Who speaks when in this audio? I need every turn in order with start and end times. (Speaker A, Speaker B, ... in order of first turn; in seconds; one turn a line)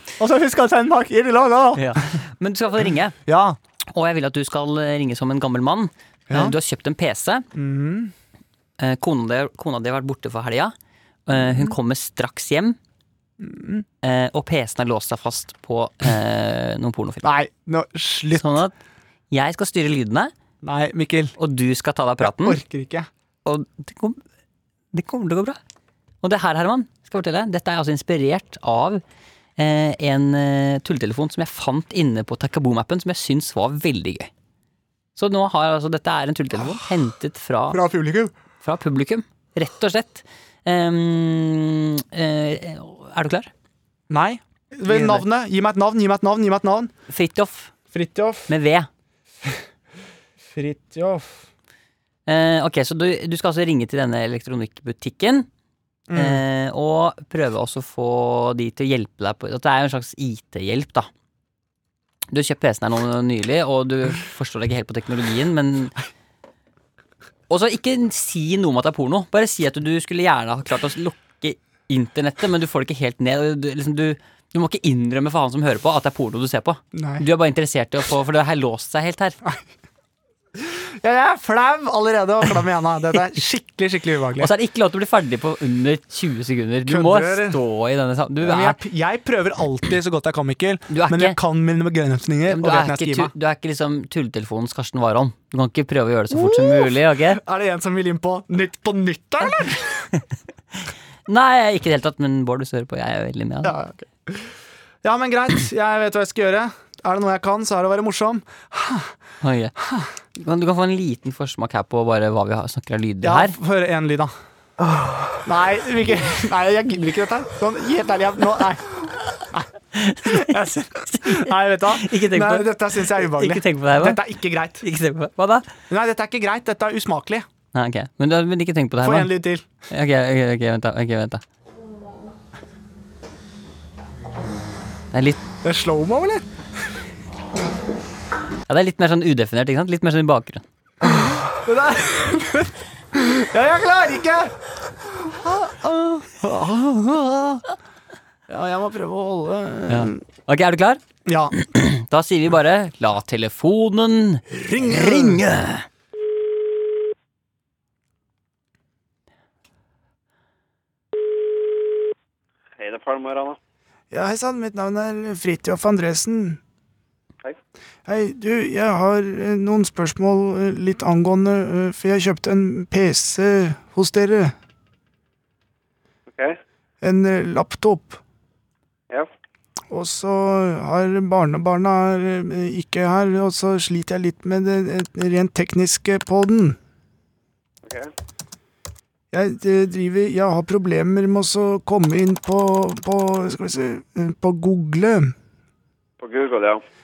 Speaker A: 0.2-2.1
Speaker B: 1.8-3.2
Speaker A: 3.3-3.6
Speaker B: 3.9-7.5
Speaker A: 6.3-6.6
Speaker A: 7.5-8.1
Speaker B: 8.8-10.7
Speaker B: 11.3-12.8
Speaker A: 11.3-11.7
Speaker A: 13.4-13.9
Speaker B: 14.0-17.3
Speaker A: 17.2-18.6
Speaker B: 18.4-18.7
Speaker B: 19.3-20.3
Speaker A: 20.6-21.4
Speaker B: 21.4-22.6
Speaker A: 22.2-23.1
Speaker B: 23.4-24.2
Speaker B: 24.9-25.6
Speaker B: 26.2-29.0
Speaker B: 29.6-34.3
Speaker B: 35.2-37.8
Speaker A: 36.6-36.9
Speaker A: 37.7-38.3
Speaker B: 38.6-43.5
Speaker A: 44.1-46.9
Speaker B: 44.9-45.2
Speaker B: 47.1-47.7
Speaker A: 47.9-48.5
Speaker B: 48.5-48.9
Speaker A: 50.5-51.4
Speaker B: 52.3-55.5
Speaker A: 56.1-56.4
Speaker B: 56.1-61.1
Speaker B: 62.3-66.0
Speaker B: 67.5-79.4
Speaker A: 76.9-77.2
Speaker A: 80.6-84.5
Speaker B: 84.4-88.8
Speaker A: 86.8-87.6
Speaker A: 88.4-93.3
Speaker B: 90.9-91.4
Speaker B: 92.5-97.4
Speaker A: 96.3-100.1
Speaker B: 101.3-103.8
Speaker A: 103.6-104.5
Speaker A: 105.0-109.2
Speaker B: 109.4-109.7
Speaker A: 109.8-110.1
Speaker B: 110.4-113.6
Speaker A: 113.2-114.3
Speaker A: 115.4-119.7
Speaker B: 119.9-124.2
Speaker A: 120.2-124.8
Speaker B: 124.8-125.7
Speaker A: 125.9-127.5
Speaker B: 127.7-129.4
Speaker A: 129.0-129.7
Speaker B: 129.9-131.4
Speaker B: 135.1-135.4
Speaker A: 135.6-136.5
Speaker B: 138.7-140.6
Speaker A: 141.0-144.5
Speaker A: 145.1-147.7
Speaker A: 148.5-150.2
Speaker B: 149.9-151.0
Speaker A: 151.2-151.5
Speaker B: 151.5-155.9
Speaker A: 154.6-155.4
Speaker C: 162.8-163.6
Speaker A: 164.1-166.6
Speaker A: 168.1-174.6
Speaker C: 176.3-176.6
Speaker A: 177.0-178.2
Speaker A: 179.9-186.8
Speaker C: 187.8-188.1
Speaker A: 189.3-195.3
Speaker C: 196.2-196.8